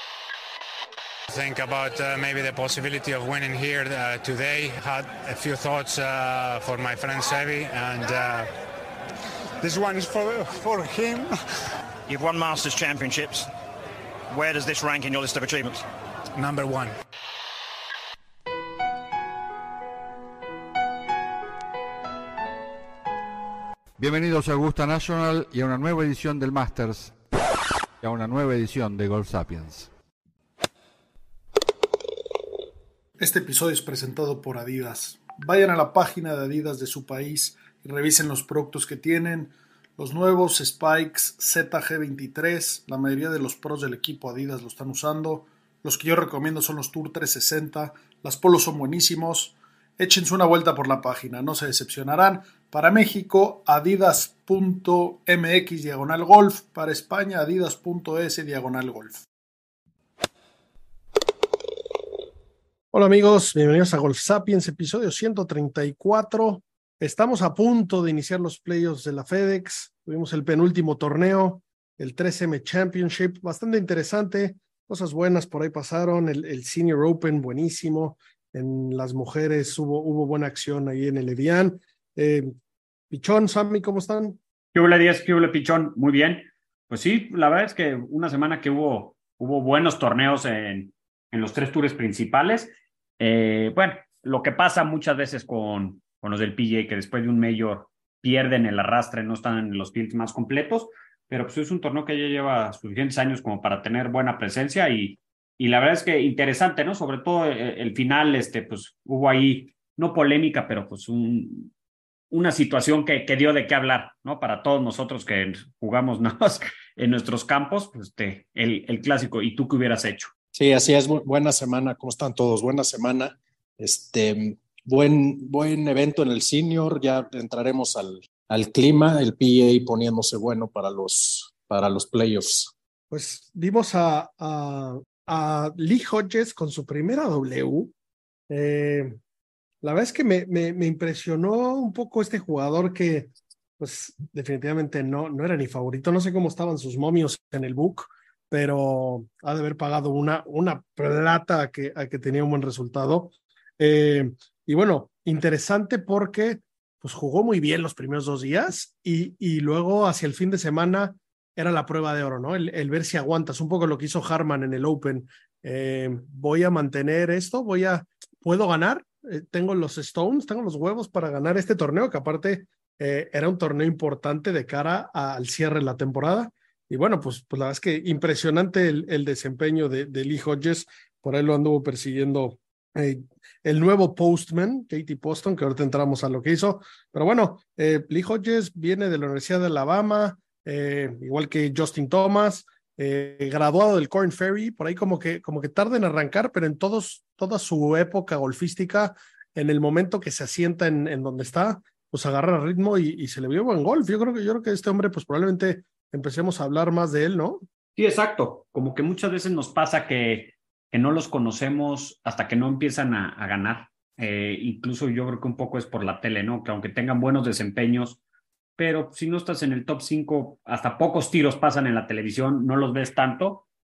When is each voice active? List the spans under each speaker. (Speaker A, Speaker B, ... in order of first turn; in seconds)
Speaker A: 1.3-8.5, 9.6-11.3, 16.3-16.9
Speaker B: 12.1-13.5, 14.3-15.8
Speaker C: 24.0-27.2, 28.0-29.9
Speaker D: 33.2-59.2, 62.9-82.5, 83.1-84.4, 133.1-137.9, 138.5-139.2, 139.8-207.6
Speaker E: 84.7-111.7, 112.3-120.3, 207.9-218.2, 218.8-223.6
Speaker F: 120.5-132.7